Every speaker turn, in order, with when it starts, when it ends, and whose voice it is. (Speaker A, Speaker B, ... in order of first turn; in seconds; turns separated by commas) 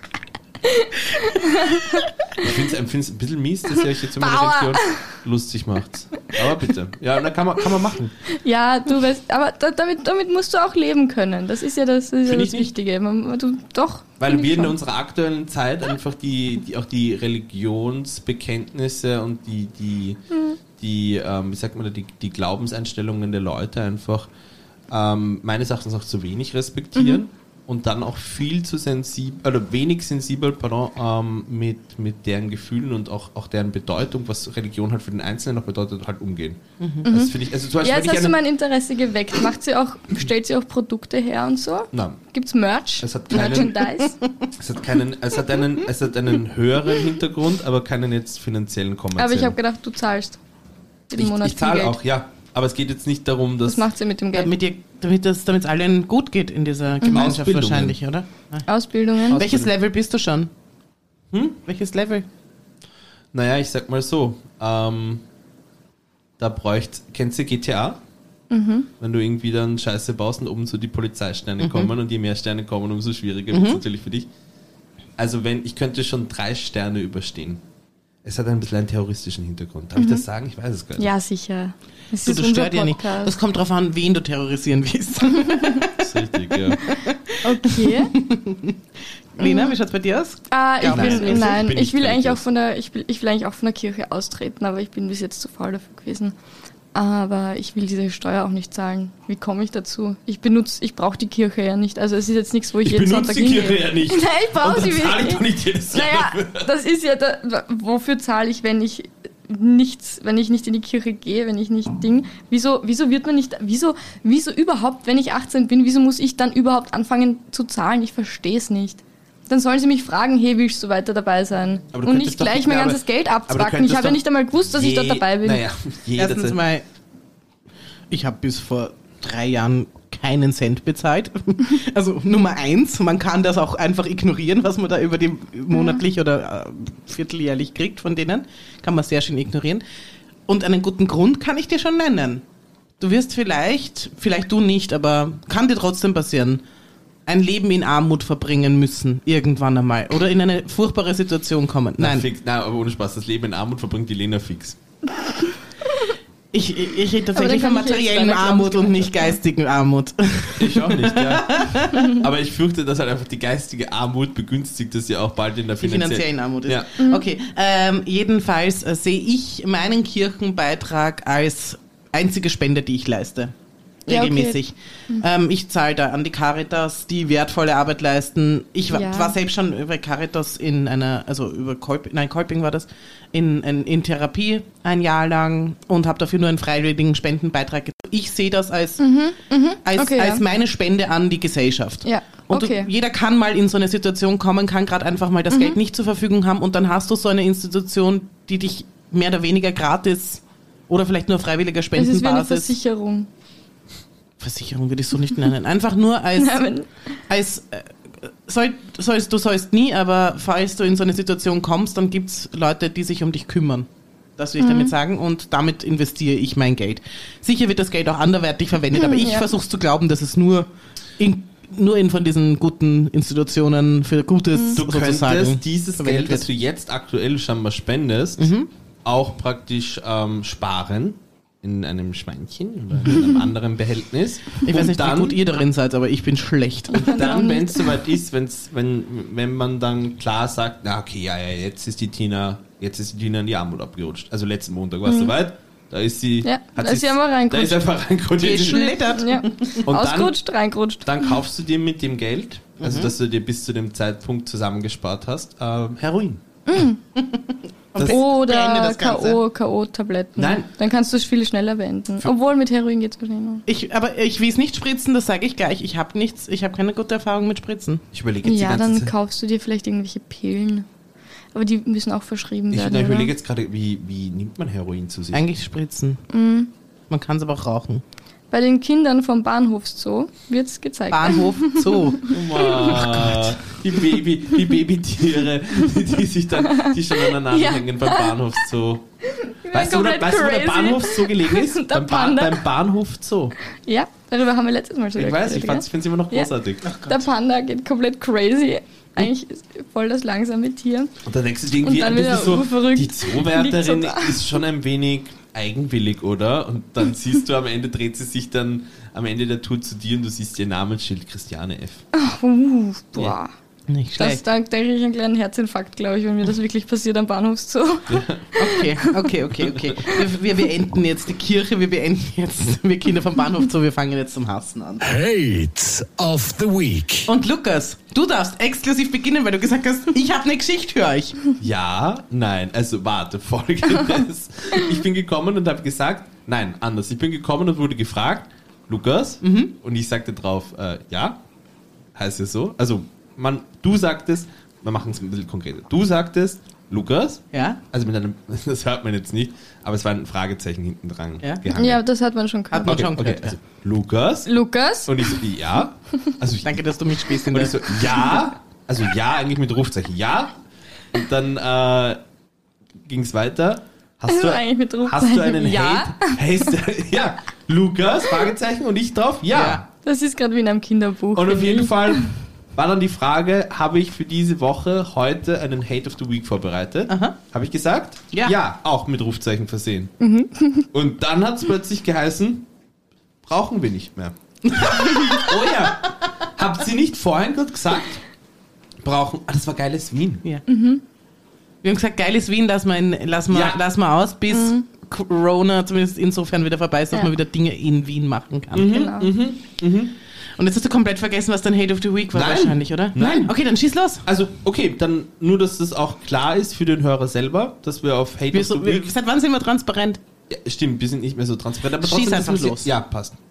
Speaker A: 0.6-2.5, Speaker B: 2.4-8.2, Speaker A: 3.8-5.0, Speaker A: 8.3-14.7, Speaker B: 12.2-12.7, Speaker B: 14.2-20.2, Speaker B: 20.8-24.3, Speaker B: 24.9-38.4, Speaker C: 36.8-37.0, Speaker A: 37.0-44.1, Speaker B: 41.9-42.2, Speaker B: 43.0-43.8, Speaker B: 44.6-49.6, Speaker A: 49.2-50.4, Speaker A: 51.1-52.0, Speaker B: 51.1-53.9, Speaker A: 53.7-54.5, Speaker C: 54.3-58.7, Speaker A: 57.0-57.3, Speaker B: 57.1-58.0, Speaker A: 58.7-59.5, Speaker B: 59.3-59.7, Speaker C: 59.3-60.5, Speaker B: 61.3-61.6, Speaker C: 61.6-62.2, Speaker B: 63.3-65.2, Speaker B: 66.4-68.0, Speaker A: 68.5-68.9, Speaker B: 69.0-74.3, Speaker C: 71.6-71.9, Speaker C: 73.5-73.8, Speaker B: 75.2-77.6, Speaker B: 78.2-81.1, Speaker A: 80.0-80.2, Speaker A: 81.0-83.3, Speaker C: 82.2-85.9, Speaker B: 86.0-86.8, Speaker C: 86.8-88.8, Speaker A: 87.4-88.1, Speaker C: 89.3-91.5, Speaker A: 89.4-89.7, Speaker A: 90.5-96.3, Speaker B: 90.8-92.4, Speaker A: 96.9-125.6, Speaker B: 102.8-106.7, Speaker B: 121.9-126.6, Speaker C: 126.2-126.8, Speaker C: 128.1-139.8, Speaker A: 135.7-136.0, Speaker C: 140.5-142.4, Speaker C: 143.0-146.6, Speaker C: 147.2-152.3, Speaker B: 152.0-154.8, Speaker C: 156.5-162.1, Speaker A: 157.3-159.3, Speaker B: 160.6-166.9, Speaker C: 165.8-173.5, Speaker A: 167.0-167.2, Speaker C: 174.1-189.0, Speaker A: 174.1-175.2, Speaker A: 178.9-179.3, Speaker A: 189.0-190.4, Speaker C: 189.8-202.8, Speaker A: 192.0-192.9, Speaker A: 195.5-195.8, Speaker A: 201.9-203.3, Speaker C: 204.4-206.7, Speaker A: 206.3-206.9, Speaker C: 207.3-226.5, Speaker A: 214.6-214.9, Speaker A: 218.9-219.4, Speaker B: 224.8-228.5, Speaker C: 228.4-228.7, Speaker B: 229.0-235.4, Speaker C: 234.6-237.2, Speaker A: 236.9-237.9, Speaker B: 236.9-249.1, Speaker A: 245.1-245.3, Speaker A: 246.4-247.8, Speaker C: 248.4-249.9, Speaker A: 248.8-251.3, Speaker B: 249.8-250.4, Speaker B: 251.0-256.4, Speaker C: 252.8-253.1, Speaker A: 256.6-257.0, Speaker C: 257.1-259.4, Speaker B: 257.9-258.2, Speaker A: 258.0-263.6, Speaker B: 260.4-260.7, Speaker C: 263.7-268.0, Speaker B: 268.1-269.1, Speaker A: 268.4-270.9, Speaker A: 271.5-273.3, Speaker B: 272.7-275.4, Speaker C: 275.3-276.2, Speaker A: 276.3-276.7, Speaker C: 277.1-278.0, Speaker A: 278.5-283.1, Speaker C: 281.1-283.4, Speaker B: 282.3-289.1, Speaker A: 286.6-288.4, Speaker A: 289.2-292.6, Speaker B: 289.7-293.5, Speaker A: 293.9-296.5, Speaker B: 295.1-296.9, Speaker C: 296.8-297.2, Speaker A: 297.1-301.1, Speaker B: 301.2-312.0, Speaker A: 301.8-304.5, Speaker A: 312.1-313.5, Speaker C: 313.9-314.4, Speaker A: 314.2-319.1, Speaker B: 318.1-318.4, Speaker C: 318.6-325.1, Speaker B: 319.6-319.9, Speaker D: 325.0-327.3, Speaker C: 327.2-331.4, Speaker B: 331.6-341.4, Speaker C: 339.4-339.7, Speaker B: 342.1-352.0, Speaker C: 347.5-347.8, Speaker A: 351.7-353.0, Speaker C: 352.7-353.6, Speaker B: 352.8-354.5, Speaker A: 354.4-355.4, Speaker B: 355.0-356.8, Speaker C: 356.6-357.9, Speaker B: 357.4-360.6, Speaker B: 361.1-362.2, Speaker B: 363.0-369.9, Speaker A: 364.3-366.7, Speaker C: 369.5-369.8, Speaker A: 370.0-372.3, Speaker B: 371.3-380.1, Speaker C: 377.1-377.4, Speaker A: 380.2-380.9, Speaker B: 380.9-382.7, Speaker B: 383.4-388.2, Speaker C: 384.7-385.5, Speaker B: 389.0-390.4, Speaker A: 390.7-391.0, Speaker C: 391.8-398.9, Speaker B: 393.5-393.8, Speaker A: 394.5-394.8, Speaker B: 398.7-400.1, Speaker A: 398.9-399.3, Speaker C: 400.6-404.2, Speaker B: 402.3-403.5, Speaker B: 404.2-409.1, Speaker C: 408.5-410.2, Speaker B: 410.5-413.4, Speaker C: 412.0-412.9